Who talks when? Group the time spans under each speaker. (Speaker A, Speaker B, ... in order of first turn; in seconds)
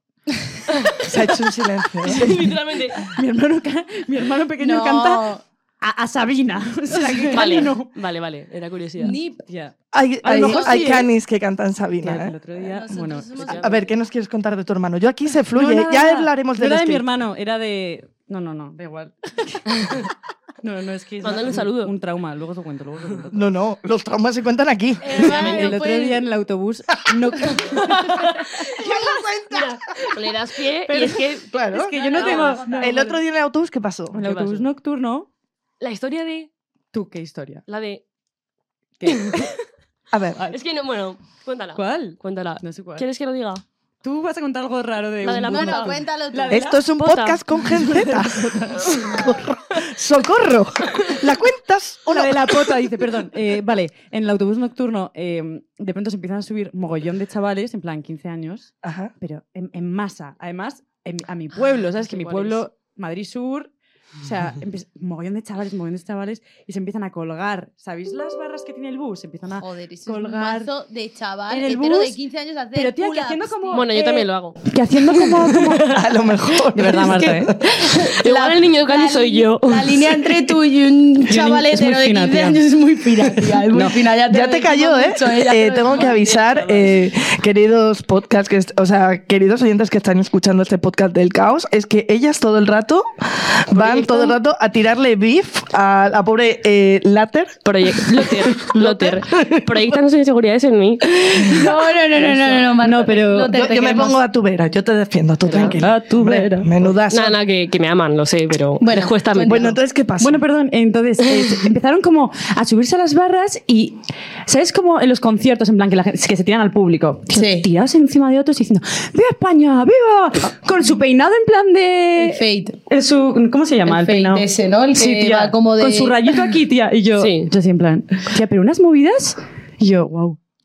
Speaker A: 0.7-1.1, 2.0-3.1, 7.3-9.2, 13.4-13.7, 21.2-21.9, 25.2-25.8, 27.5-28.9, 29.5-33.0, 34.2-34.7, 35.8-36.5, 37.7-38.0, 39.0-39.6, 40.5-43.6, 45.2-47.8, 48.8-49.2, 61.5-62.6, 73.7-76.0, 77.9-80.4, 85.8-87.1, 93.7-94.4, 97.6-101.7, 105.4-105.8, 107.1-109.7, 111.2-111.7, 127.2-127.5
Speaker B: 1.0-2.5, 9.9-12.4, 13.6-17.1, 23.3-25.4, 27.1-30.2, 31.4-32.0, 32.8-34.2, 40.1-40.4, 46.5-52.9, 58.8-59.1, 75.9-77.6, 84.3-100.0, 103.5-107.4, 109.4-110.4
Speaker C: 3.0-7.9, 9.1-11.1, 12.0-13.6, 15.5-23.5, 25.2-28.2, 30.9-33.0, 34.1-35.3, 36.9-37.6, 39.0-39.6, 41.8-43.1, 44.0-46.8, 47.6-49.2, 52.1-70.7, 71.5-72.2, 72.7-76.0, 76.7-77.5, 81.3-82.6, 83.7-84.0, 102.8-103.6, 105.7-106.7, 110.2-130.4
Speaker D: 4.6-5.4, 7.0-7.5, 9.0-9.4, 10.3-11.0, 12.6-13.9, 25.0-26.2, 31.9-33.1, 45.5-46.7, 69.5-73.9, 77.1-86.2, 101.1-104.2, 108.8-109.8, 117.3-117.7, 122.2-122.8, 123.8-126.4